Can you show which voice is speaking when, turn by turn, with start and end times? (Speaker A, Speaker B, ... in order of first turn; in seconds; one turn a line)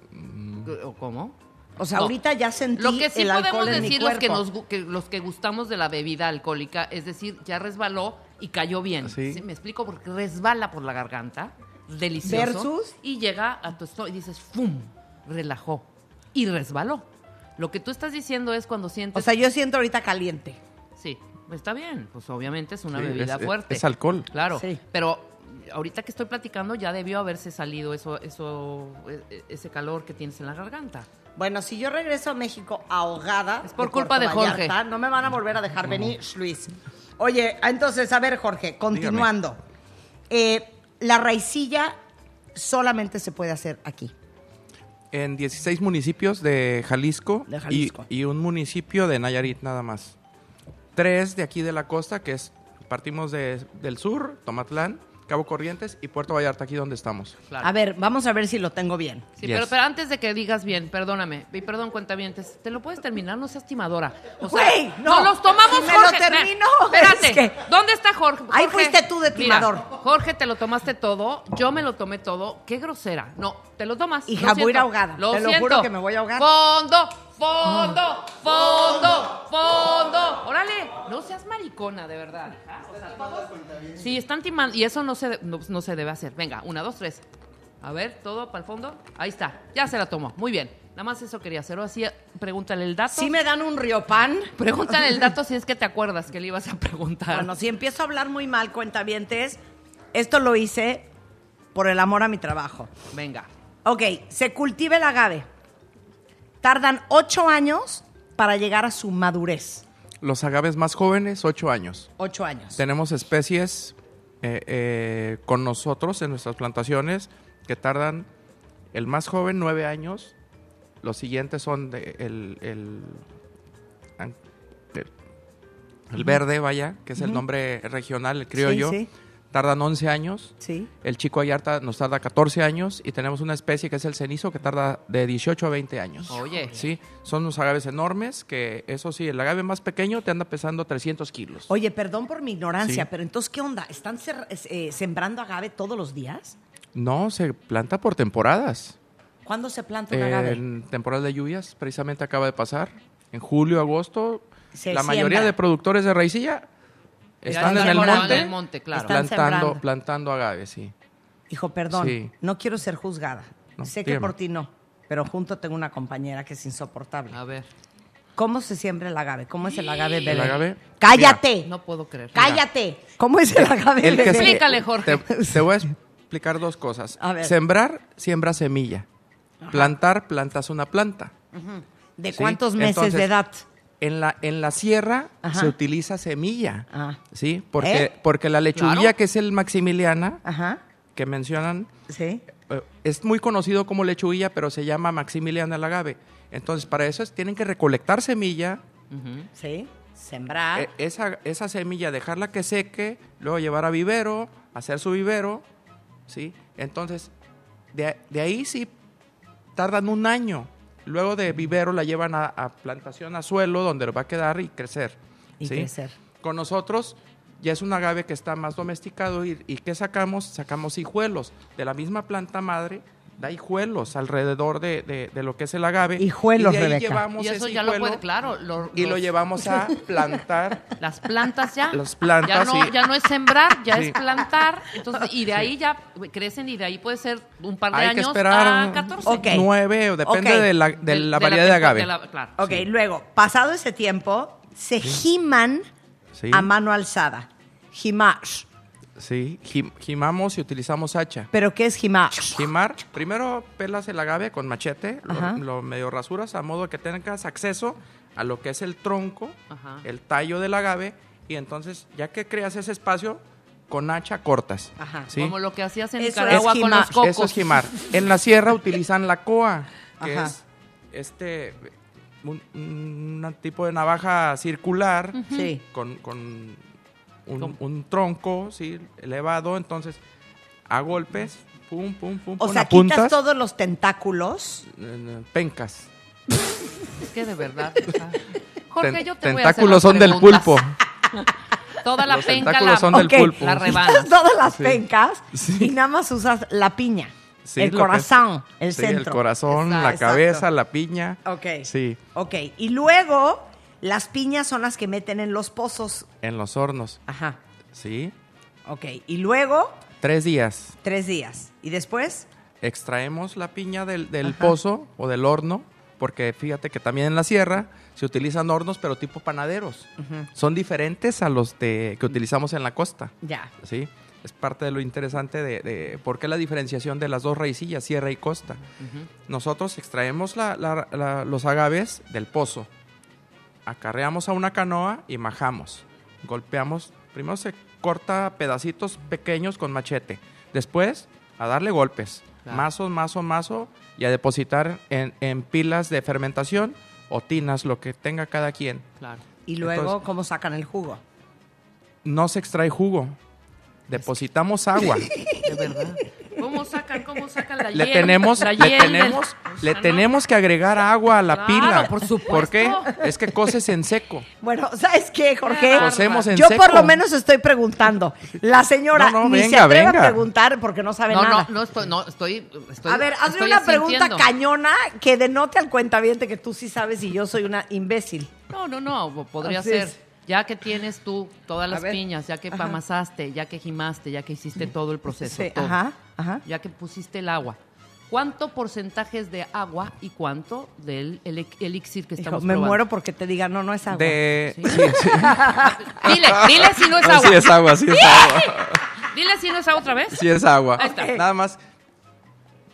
Speaker A: 0.1-0.7
Speaker B: 0.7-1.4
Speaker C: 1.8-4.5
Speaker B: 2.8-17.1
Speaker A: 9.0-9.4
Speaker C: 12.2-12.9
Speaker B: 17.6-19.3
Speaker C: 19.1-20.6
Speaker B: 21.0-31.1
Speaker A: 22.9-24.3
Speaker C: 24.5-24.8
Speaker C: 31.4-39.6
Speaker B: 33.6-34.8
Speaker A: 38.9-39.3
Speaker C: 40.3-42.0
Speaker C: 42.5-44.1
Speaker A: 45.1-50.2
Speaker C: 47.5-48.1
Speaker A: 51.0-57.4
Speaker C: 57.6-59.3
Speaker B: 59.4-87.2
Speaker A: 59.4-59.7
Speaker C: 64.4-67.6
Speaker C: 68.5-69.9
Speaker C: 74.3-76.5
Speaker B: 87.8-93.3
Speaker C: 93.1-94.5
Speaker B: 94.6-97.5
Speaker C: 97.3-99.6
Speaker C: 100.1-101.1
Speaker C: 101.7-102.9
Speaker B: 103.1-103.5
Speaker C: 103.8-105.5
Speaker C: 106.6-109.8
Speaker A: 110.2-112.1
Speaker C: 112.2-112.8
Speaker A: 112.8-118.3
Speaker A: 118.9-120.3
Speaker A: 121.0-123.2
Speaker A: 126.1-141.7
Speaker C: 128.6-129.1
Speaker C: 130.6-130.9
Speaker B: 136.3-136.8
Speaker C: 141.7-146.6
Speaker A: 146.9-149.0
Speaker C: 149.4-150.6
Speaker A: 150.1-156.7
Speaker C: 154.7-155.6
Speaker A: 157.4-160.9
Speaker B: 157.5-159.2
Speaker C: 157.5-159.8
Speaker C: 161.5-167.4
Speaker A: 161.9-162.3
Speaker A: 163.8-164.3
Speaker B: 167.3-167.7
Speaker C: 168.4-171.7
Speaker B: 169.7-170.6
Speaker A: 170.3-171.4
Speaker B: 171.6-172.6
Speaker C: 172.3-174.6
Speaker A: 174.0-179.1
Speaker B: 174.1-175.2
Speaker C: 175.3-175.7
Speaker C: 177.2-177.6
Speaker C: 179.6-179.9
Speaker A: 179.7-181.3
Speaker C: 181.5-183.7
Speaker A: 182.3-183.3
Speaker A: 184.0-190.4
Speaker C: 185.4-185.8
Speaker C: 186.9-187.2
Speaker C: 187.8-188.1
Speaker B: 188.7-189.1
Speaker C: 190.4-190.8
Speaker A: 191.2-191.9
Speaker C: 192.1-192.4
Speaker A: 192.6-198.8
Speaker B: 199.1-199.5
Speaker C: 199.6-200.9
Speaker A: 200.8-205.6
Speaker A: 206.3-207.3
Speaker A: 207.9-208.9
Speaker A: 209.8-228.2
Speaker C: 215.6-216.2
Speaker C: 226.2-227.2
Speaker B: 227.4-229.3
Speaker A: 228.9-230.9
Speaker B: 231.0-239.5
Speaker A: 231.9-233.1
Speaker A: 233.9-234.2
Speaker A: 237.9-242.8
Speaker C: 239.3-239.7
Speaker C: 240.2-240.7
Speaker B: 241.0-242.6
Speaker C: 242.6-245.8
Speaker A: 246.3-246.7
Speaker C: 246.5-248.7
Speaker A: 249.2-251.5
Speaker C: 251.5-252.7
Speaker A: 252.5-265.6
Speaker C: 255.3-255.6
Speaker B: 259.7-260.1
Speaker C: 265.0-265.3
Speaker B: 265.3-267.6
Speaker C: 266.2-267.3
Speaker A: 266.5-271.9
Speaker C: 270.2-270.5
Speaker A: 272.4-276.8
Speaker B: 275.4-275.7
Speaker C: 275.5-275.8
Speaker A: 277.5-280.2
Speaker A: 280.9-283.4
Speaker C: 282.6-284.9
Speaker A: 284.9-286.1
Speaker B: 287.2-290.8
Speaker A: 289.0-291.0
Speaker B: 291.3-294.3
Speaker A: 292.2-294.0
Speaker C: 293.1-300.6
Speaker A: 294.7-295.0
Speaker A: 295.5-295.9
Speaker A: 297.6-298.3
Speaker A: 298.9-302.2
Speaker B: 299.7-300.1
Speaker C: 301.4-306.3
Speaker A: 306.4-307.2
Speaker C: 307.3-307.6
Speaker A: 307.9-308.3
Speaker C: 308.9-310.0
Speaker A: 310.2-311.0
Speaker C: 311.0-312.5
Speaker A: 312.8-328.8
Speaker C: 314.4-314.8
Speaker C: 320.2-320.5
Speaker C: 323.4-323.7
Speaker B: 329.0-329.3
Speaker A: 329.5-332.9
Speaker A: 333.9-349.1
Speaker C: 349.7-351.2
Speaker A: 349.8-350.2
Speaker A: 352.2-353.4
Speaker A: 354.1-355.3
Speaker C: 355.2-355.8
Speaker B: 355.6-360.3
Speaker A: 357.9-364.5
Speaker B: 361.5-363.2
Speaker C: 364.6-371.7
Speaker B: 365.6-366.5
Speaker A: 365.9-367.2
Speaker A: 369.1-370.4
Speaker B: 371.3-374.5
Speaker C: 373.1-378.5
Speaker B: 378.7-386.0
Speaker C: 379.6-380.1
Speaker C: 381.9-383.0
Speaker C: 385.4-386.6
Speaker B: 386.6-387.8
Speaker B: 388.3-393.0
Speaker C: 392.4-396.0
Speaker A: 394.1-399.1
Speaker B: 394.7-395.0
Speaker B: 395.7-401.4
Speaker A: 400.3-401.8
Speaker C: 401.0-401.4